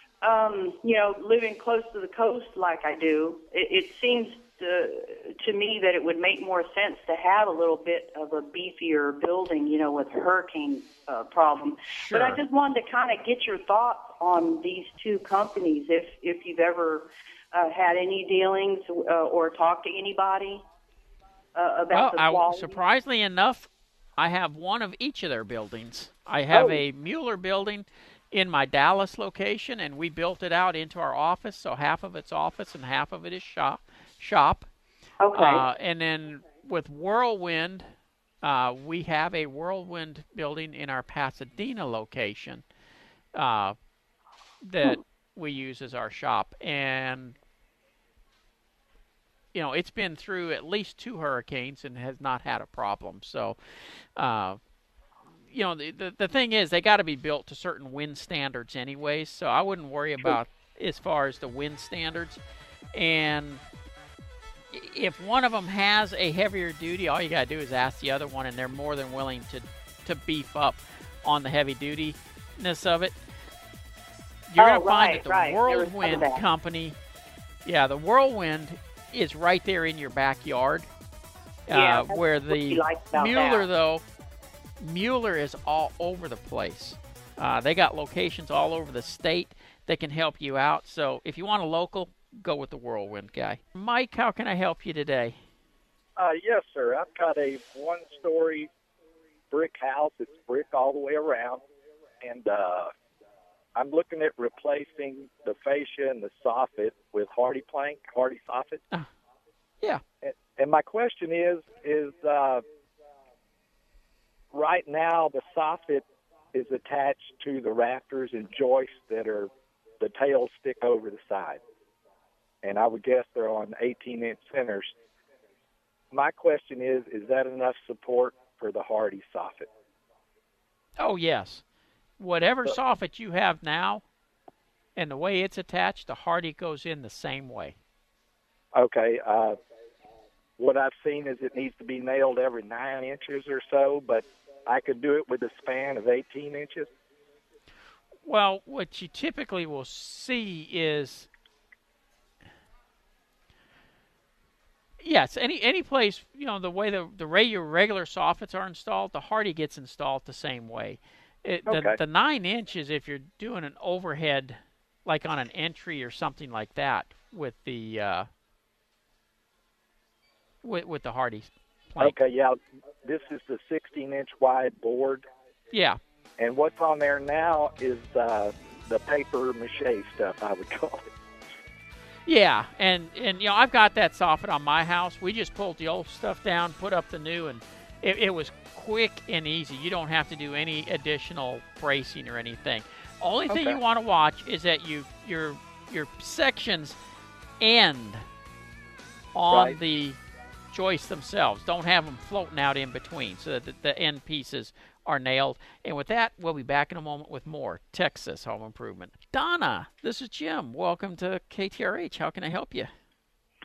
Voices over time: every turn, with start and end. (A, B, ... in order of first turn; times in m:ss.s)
0:00.2-0:20.6 A
0:11.9-0:12.4 B
0:21.5-0:22.8 A
0:21.9-0:34.7 B
0:26.5-0:26.8 A
0:35.2-0:35.6 A
0:35.3-0:37.8 B
0:38.4-0:42.6 B
0:43.4-0:43.8 B
0:44.6-0:47.4 B
0:49.5-0:53.6 B
0:54.2-0:54.6 B
0:55.5-1:02.4 B
1:02.9-1:03.6 B
1:04.7-1:13.1 B
1:14.5-1:17.0 B
1:14.6-1:16.4 A
1:17.6-1:20.9 B
1:21.7-1:24.0 B
1:21.7-1:23.7 A
1:24.8-1:35.4 B
1:36.2-1:38.7 C
1:39.5-1:41.6 C
1:42.2-1:42.9 C
1:43.8-1:48.8 C
1:50.2-1:52.6 C
1:54.5-2:01.6 C
2:02.6-2:04.9 C
2:06.1-2:09.7 C
2:11.0-2:11.6 B
2:12.2-2:14.0 B
2:15.0-2:17.8 B
2:18.8-2:19.6 C
2:20.6-2:26.9 C
2:28.2-2:31.3 B
2:35.0-2:48.3 B
2:41.7-2:42.0 C
2:50.6-2:52.2 B
2:52.0-2:55.2 C
2:55.7-2:56.0 B
2:56.4-3:01.0 C
3:02.2-3:17.0 B
3:13.5-3:13.8 C
3:17.6-3:18.2 B
3:19.3-3:20.2 B
3:19.5-3:19.8 C
3:20.7-3:32.9 B